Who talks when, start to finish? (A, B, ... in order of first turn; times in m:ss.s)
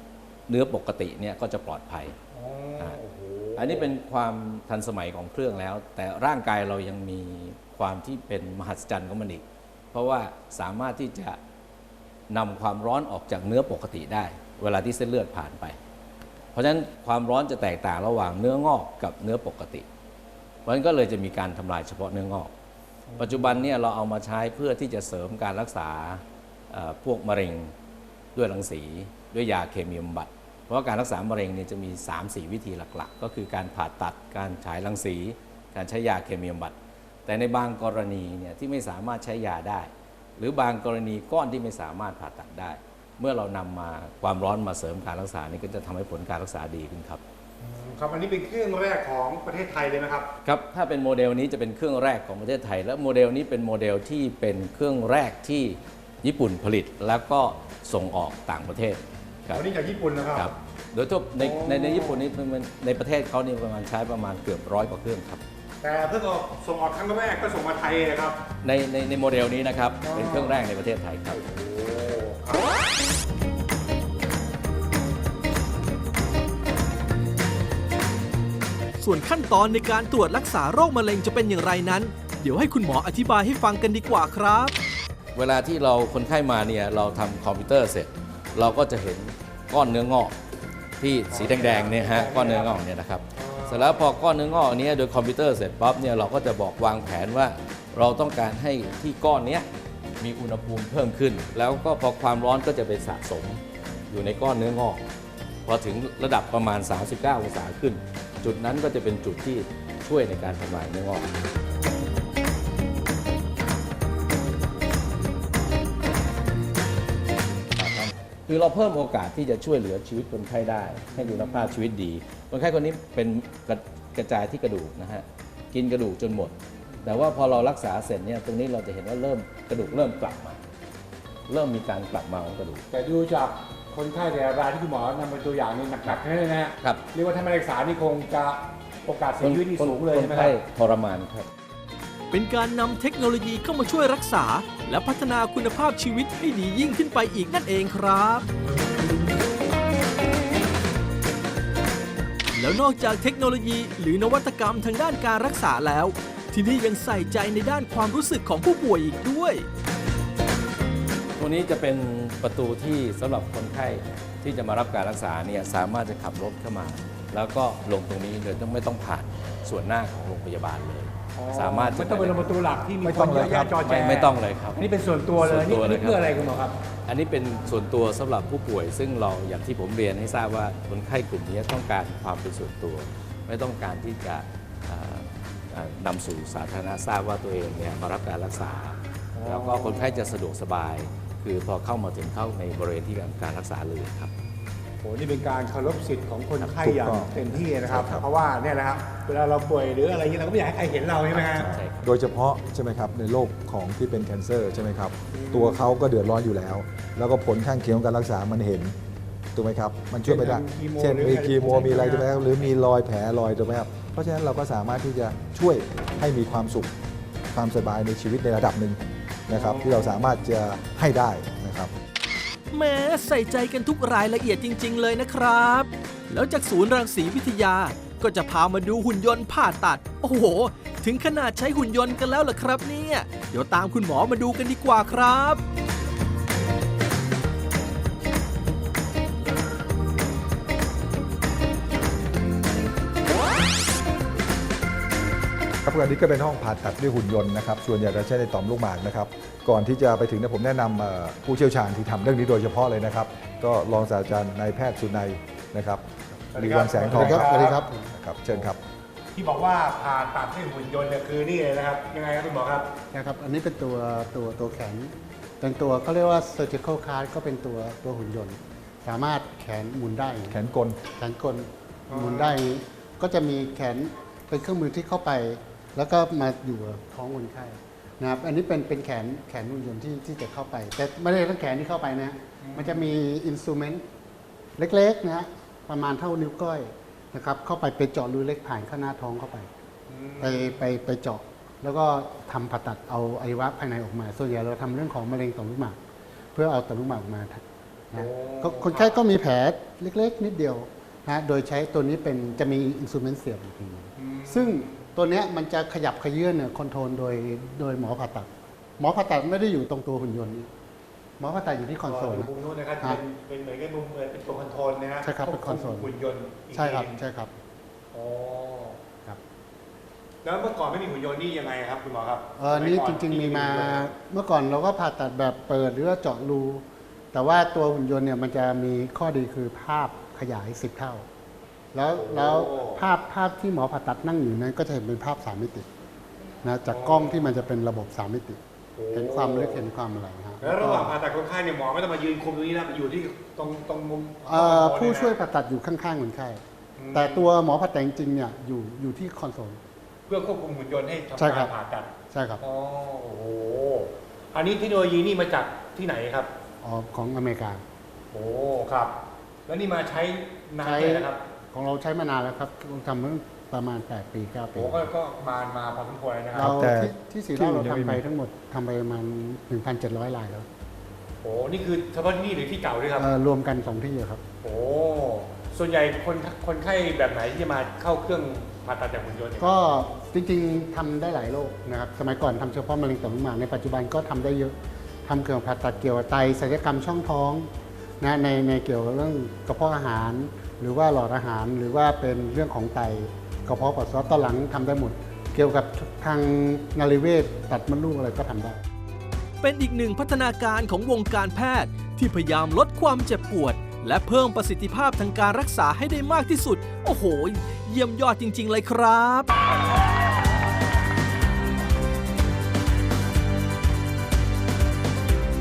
0:00.5-0:02.2 A
0:02.3-0:03.9 B
0:03.6-0:11.4 A
0:12.3-0:15.8 A
0:16.5-0:19.8 A
0:20.6-0:22.5 A
0:23.1-0:23.5 B
0:23.2-0:27.7 A
0:28.3-0:36.7 A
0:37.2-0:47.2 A
0:47.6-0:50.3 B
0:50.4-0:59.6 A
0:59.5-1:00.5 B
1:00.3-1:05.4 A
1:01.4-1:02.2 B
1:05.8-1:08.4 B
1:08.6-1:11.4 A
1:10.0-1:10.6 B
1:11.3-1:12.8 B
1:19.0-1:24.8 C
1:25.3-1:30.3 A
1:31.0-1:39.7 A
1:31.3-1:32.8 B
1:33.4-1:34.0 B
1:40.2-1:45.0 A
1:45.6-1:51.3 A
1:57.7-2:10.6 A
2:11.5-2:12.8 A
2:12.9-2:20.6 B
2:19.4-2:21.5 A
2:22.3-2:28.5 C
2:32.5-2:39.7 C
2:41.4-2:52.5 A
2:51.3-2:56.8 B
2:53.0-2:53.8 D
2:53.8-2:56.3 A
2:57.1-3:14.3 A
3:09.3-3:10.4 B
3:15.0-3:21.7 B
3:16.8-3:18.2 D
3:17.5-3:18.2 A
3:21.3-3:22.0 A
3:21.5-3:28.9 D
3:25.3-3:25.8 B
3:29.5-3:36.9 D
3:30.2-3:32.7 B
3:37.5-3:41.9 D
3:39.5-3:40.3 B
3:42.7-3:55.6 C
4:05.8-4:18.8 D
4:16.5-4:17.8 B
4:17.1-4:18.1 E
4:19.3-4:22.9 B
4:23.1-4:30.6 E
4:30.5-4:31.0 D
4:31.1-4:44.0 E
4:32.1-4:32.6 B
4:42.6-4:43.2 B
4:44.8-4:49.7 E
4:50.1-4:50.9 B
4:50.4-4:56.0 E
4:56.5-5:10.7 E
4:58.1-4:59.2 B
5:04.2-5:05.0 B
5:11.4-5:13.2 E
5:12.0-5:17.2 B
5:15.2-5:16.1 E
5:16.7-5:17.5 E
5:18.1-5:19.0 B
5:20.4-5:24.1 B
5:22.6-5:31.2 E
5:31.9-5:35.9 E
5:32.1-5:33.0 B
5:36.6-5:38.6 E
5:36.9-5:37.5 B
5:39.0-5:39.9 B
5:39.1-5:41.2 E
5:40.6-5:45.4 B
5:44.4-5:49.8 E
5:47.0-5:47.5 B
5:50.3-5:56.5 B
5:51.4-5:51.7 E
5:52.3-5:52.6 E
5:56.8-5:57.8 E
5:58.3-6:01.4 B
6:00.8-6:05.1 E
6:04.7-6:06.8 B
6:06.5-6:08.2 D
6:06.6-6:10.7 E
6:11.4-6:13.3 B
6:13.2-6:14.4 E
6:14.6-6:19.8 B
6:19.6-6:38.8 E
6:39.6-6:49.5 C